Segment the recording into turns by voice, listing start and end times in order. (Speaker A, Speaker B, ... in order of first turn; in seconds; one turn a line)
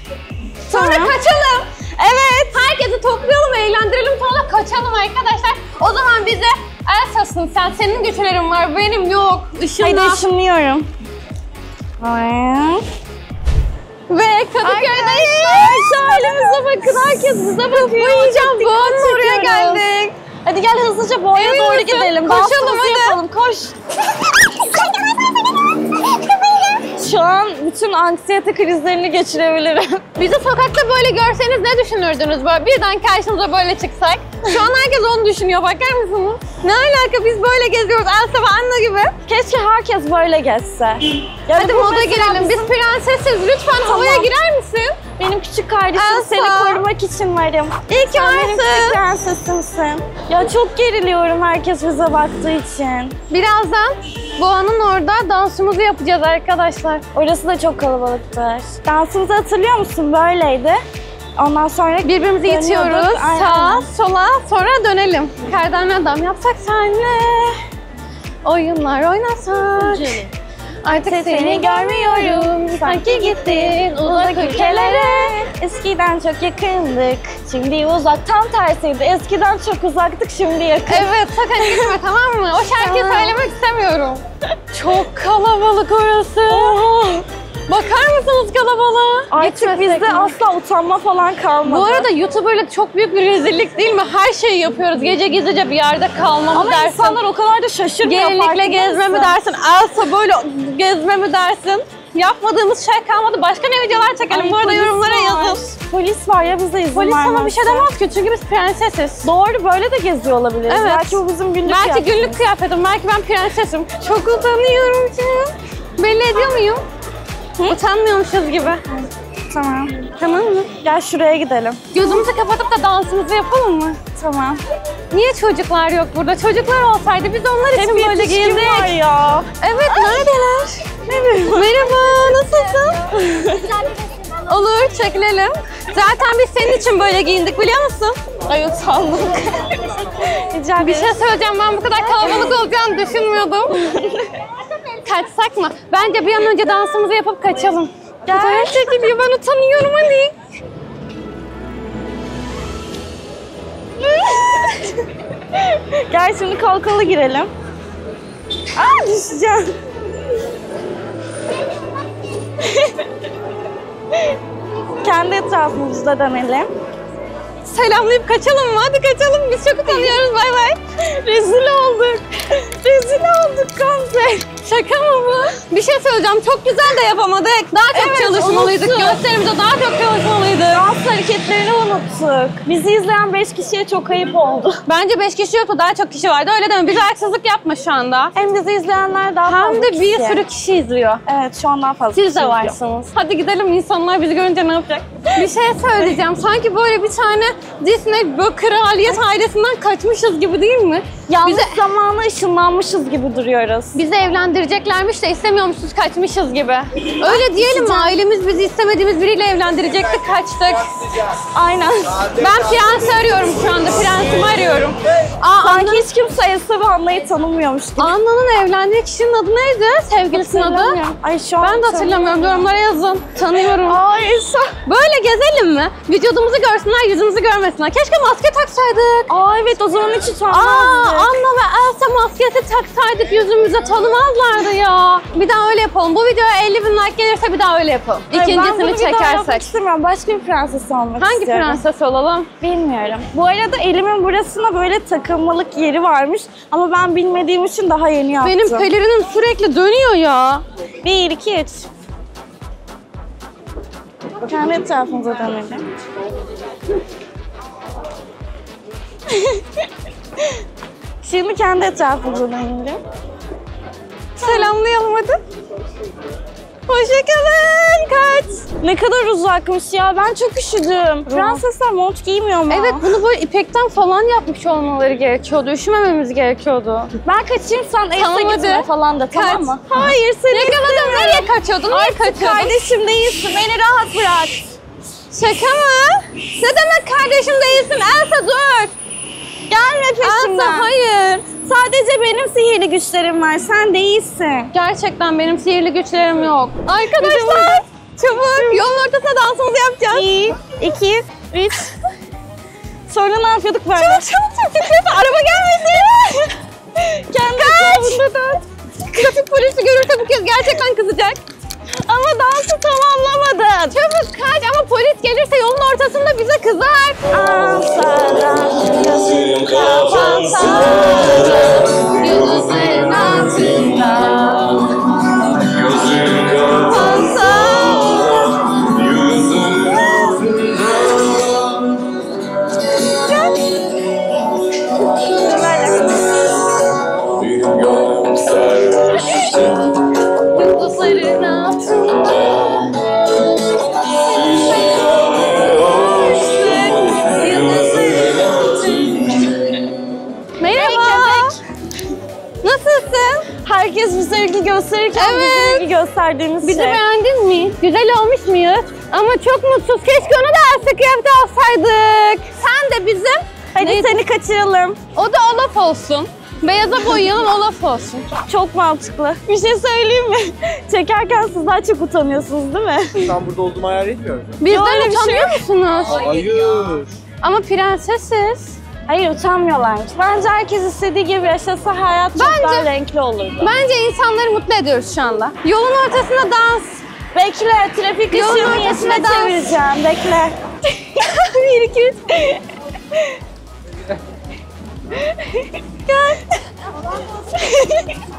Speaker A: 0.7-10.2
Speaker B: 0.7-1.1
Speaker B: 9.8-10.9
Speaker B: 12.0-12.8
Speaker A: 14.1-20.1
Speaker B: 14.6-19.9
Speaker B: 20.4-23.7
Speaker A: 21.3-23.2
Speaker B: 25.9-30.0
Speaker A: 30.2-39.1
Speaker B: 39.3-42.7
Speaker A: 41.5-45.0
Speaker B: 43.8-44.3
Speaker B: 45.2-53.2
Speaker A: 45.9-46.8
Speaker A: 47.9-49.0
Speaker A: 53.3-57.0
Speaker B: 57.1-60.8
Speaker B: 61.4-63.9
Speaker A: 62.0-67.6
Speaker A: 68.4-70.2
Speaker B: 69.8-70.3
Speaker A: 70.8-75.4
Speaker B: 71.0-81.9
Speaker A: 80.9-84.2
Speaker B: 82.8-83.5
Speaker A: 84.7-86.8
Speaker B: 86.5-87.2
Speaker A: 87.7-90.3
Speaker B: 89.3-92.1
Speaker A: 91.6-97.2
Speaker B: 96.5-99.4
Speaker A: 98.0-105.6
Speaker B: 104.3-107.9
Speaker A: 106.9-109.3
Speaker B: 109.2-112.4
Speaker A: 110.7-116.8
Speaker A: 117.7-118.8
Speaker B: 119.5-120.0
Speaker A: 120.2-120.7
Speaker B: 120.8-121.8
Speaker A: 121.9-124.0
Speaker B: 124.2-124.6
Speaker A: 125.1-128.9
Speaker B: 127.7-130.2
Speaker A: 129.6-130.9
Speaker B: 131.1-131.9
Speaker A: 131.4-133.2
Speaker B: 133.1-133.8
Speaker A: 134.4-138.2
Speaker B: 138.4-141.2
Speaker A: 140.8-143.8
Speaker B: 142.0-142.5
Speaker B: 143.7-144.4
Speaker A: 145.0-150.3
Speaker B: 148.2-149.1
Speaker B: 154.0-157.5
Speaker B: 158.7-159.7
Speaker B: 162.6-163.1
Speaker B: 165.0-166.7
Speaker A: 167.6-170.8
Speaker B: 169.9-170.2
Speaker B: 170.9-174.5
Speaker A: 174.6-180.8
Speaker B: 177.9-179.2
Speaker B: 180.7-184.8
Speaker A: 184.9-188.3
Speaker B: 188.3-190.4
Speaker A: 189.4-191.2
Speaker B: 191.2-192.8
Speaker A: 192.1-201.8
Speaker B: 201.3-204.0
Speaker A: 203.9-211.2
Speaker B: 207.2-208.2
Speaker B: 211.4-212.3
Speaker A: 212.3-216.1
Speaker B: 215.6-218.1
Speaker A: 218.0-221.0
Speaker B: 220.3-222.5
Speaker A: 221.6-224.0
Speaker B: 223.7-224.7
Speaker A: 224.8-229.3
Speaker B: 229.3-231.3
Speaker A: 230.5-239.7
Speaker B: 238.3-241.8
Speaker A: 241.2-242.5
Speaker B: 242.6-248.9
Speaker A: 248.4-250.6
Speaker B: 251.0-251.9
Speaker B: 254.5-255.9
Speaker B: 259.3-260.6
Speaker B: 261.2-263.0
Speaker B: 264.4-264.7
Speaker A: 264.4-265.4
Speaker A: 266.9-268.6
Speaker B: 268.8-273.1
Speaker A: 271.3-271.6
Speaker A: 272.7-277.1
Speaker B: 277.2-284.7
Speaker A: 278.1-279.8
Speaker A: 280.5-282.7
Speaker A: 285.3-288.9
Speaker B: 289.7-290.9
Speaker A: 290.2-291.5
Speaker B: 291.6-294.7
Speaker A: 294.7-300.3
Speaker B: 297.2-298.9
Speaker B: 300.1-301.9
Speaker B: 303.1-304.3
Speaker A: 303.9-306.6
Speaker B: 306.9-308.2
Speaker A: 307.5-311.4
Speaker B: 311.9-314.0
Speaker A: 313.9-317.2
Speaker B: 317.3-321.4
Speaker C: 319.5-320.4
Speaker A: 320.0-324.8
Speaker C: 322.3-324.1
Speaker C: 325.7-331.0
Speaker A: 326.8-328.5
Speaker B: 333.3-333.5
Speaker B: 335.2-336.2
Speaker C: 337.4-339.7
Speaker A: 340.5-342.9
Speaker A: 344.5-344.9
Speaker C: 345.4-348.4
Speaker A: 345.9-349.3
Speaker A: 350.6-351.6
Speaker B: 350.7-351.6
Speaker A: 352.6-353.5
Speaker B: 353.6-357.0
Speaker A: 355.1-355.9
Speaker A: 356.6-364.1
Speaker B: 363.7-365.0
Speaker A: 365.1-368.3
Speaker B: 368.4-373.4
Speaker C: 373.5-374.4
Speaker A: 374.6-378.8
Speaker B: 374.6-375.6
Speaker C: 376.4-377.0
Speaker B: 379.1-383.7
Speaker A: 382.4-382.9
Speaker A: 383.6-387.0
Speaker B: 387.3-391.4
Speaker A: 388.3-389.7
Speaker A: 391.2-392.3
Speaker B: 392.3-393.4
Speaker B: 395.1-395.8
Speaker A: 396.1-396.4
Speaker B: 397.5-398.1